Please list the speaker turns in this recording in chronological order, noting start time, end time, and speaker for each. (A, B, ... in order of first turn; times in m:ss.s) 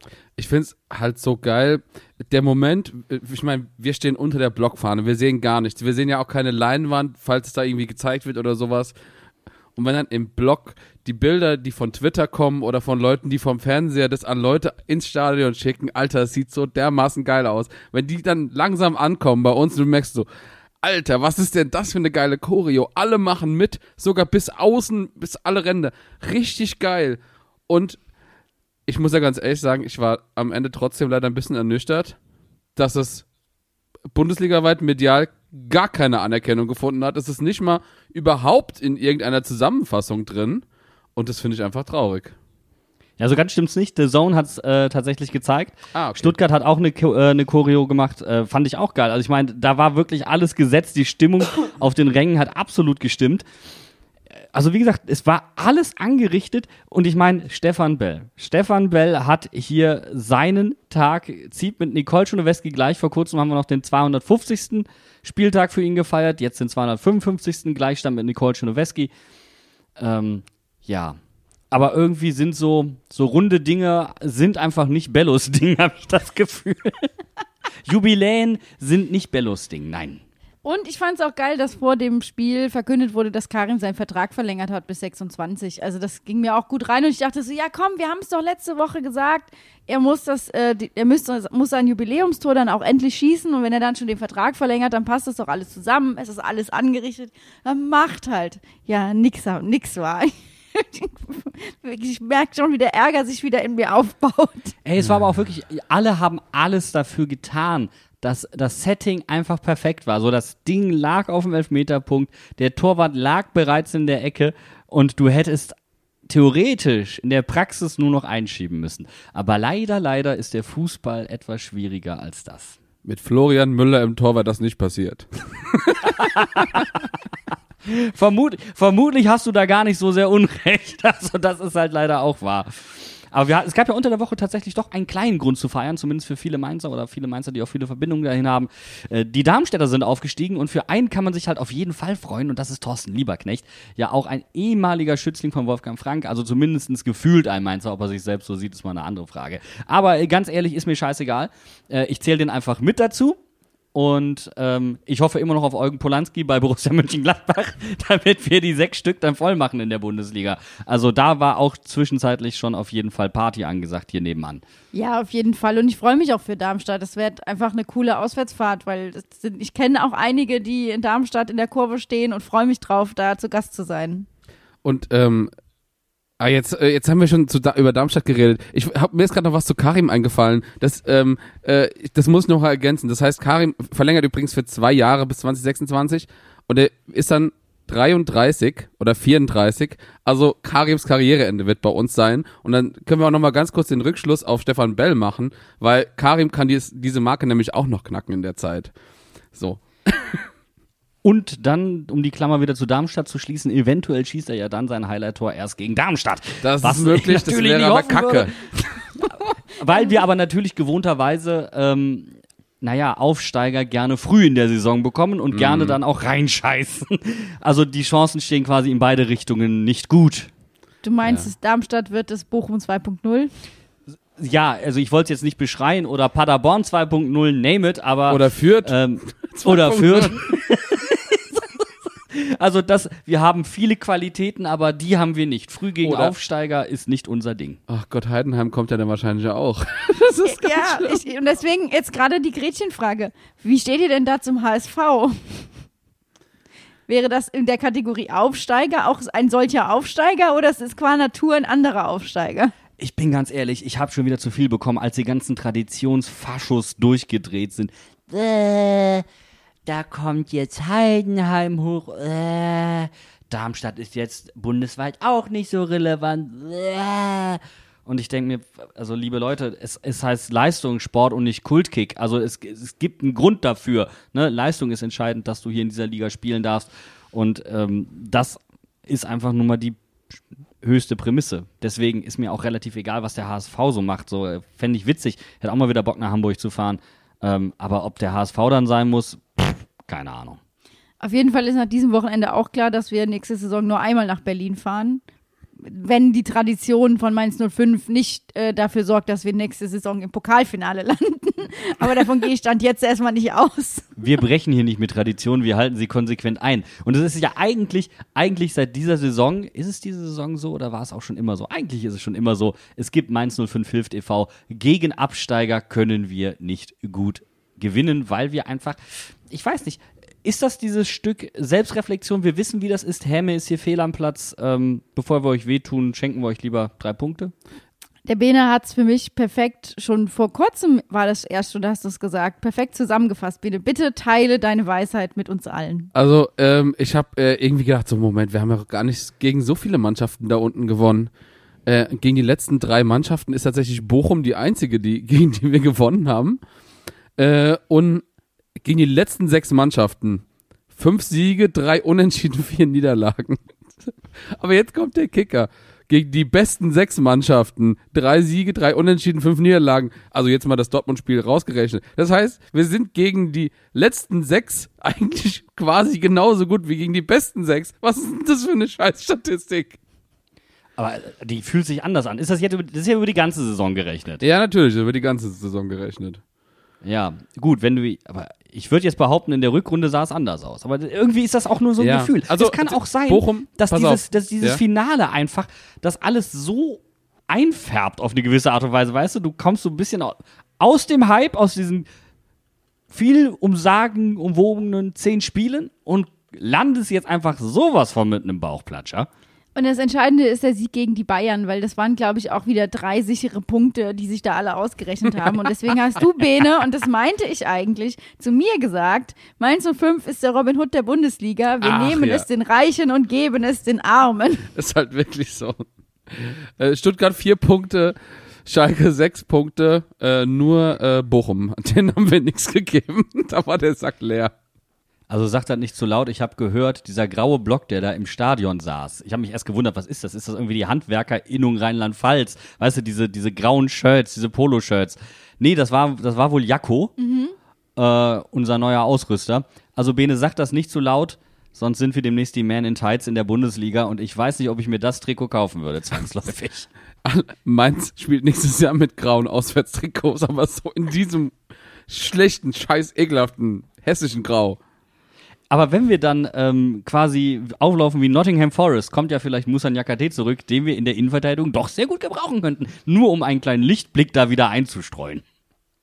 0:00.4-0:08.9 A
0:09.8-0:20.3 A
0:20.8-0:28.0 A
0:28.9-0:32.2 A
0:32.8-0:33.2 A
0:34.1-0:40.6 A
0:41.2-0:42.4 A
0:43.2-0:53.5 B
0:45.9-0:46.4 A
0:54.5-1:09.1 B
1:10.0-1:11.2 B
1:11.7-1:17.1 B
1:17.8-1:20.2 B
1:20.6-1:44.8 C
1:44.8-1:55.8 B
1:56.3-2:02.8 B
2:03.0-2:06.9 A
2:06.0-2:07.2 B
2:07.8-2:33.4 B
2:33.9-2:44.6 B
2:44.9-2:54.3 C
2:54.8-2:55.5 A
2:56.4-3:18.9 A
3:19.5-3:20.4 A
3:21.2-3:28.7 B
3:26.6-3:29.0 A
3:29.2-3:40.5 B
3:35.5-3:36.0 A
3:41.0-3:43.5 C
3:44.4-3:57.8 B
3:48.3-3:50.5 A
3:56.0-3:56.3 A
3:57.9-4:01.2 A
4:00.4-4:05.7 C
4:07.1-4:12.7 C
4:13.0-4:19.2 B
4:19.9-4:50.6 B
4:51.2-4:55.2 C
4:55.8-5:04.2 C
5:04.2-5:27.5 B
5:28.3-5:36.1 C
5:36.1-5:41.3 A
5:41.9-5:46.6 A
5:47.4-5:48.2 A
5:48.8-5:50.4 A
5:50.9-5:53.6 A
5:54.5-6:10.0 A
6:11.0-6:14.4 B
6:14.4-6:16.4 A
6:17.0-6:32.1 B
6:22.0-6:24.8 A
6:33.1-6:39.3 B
6:39.8-6:54.7 C
6:51.8-6:52.4 A
6:54.8-7:04.5 A
7:05.3-7:17.1 B
7:17.2-7:17.6 C
7:18.0-7:26.9 B
7:27.2-7:31.5 A
7:32.1-7:34.8 A
7:35.7-7:45.4 B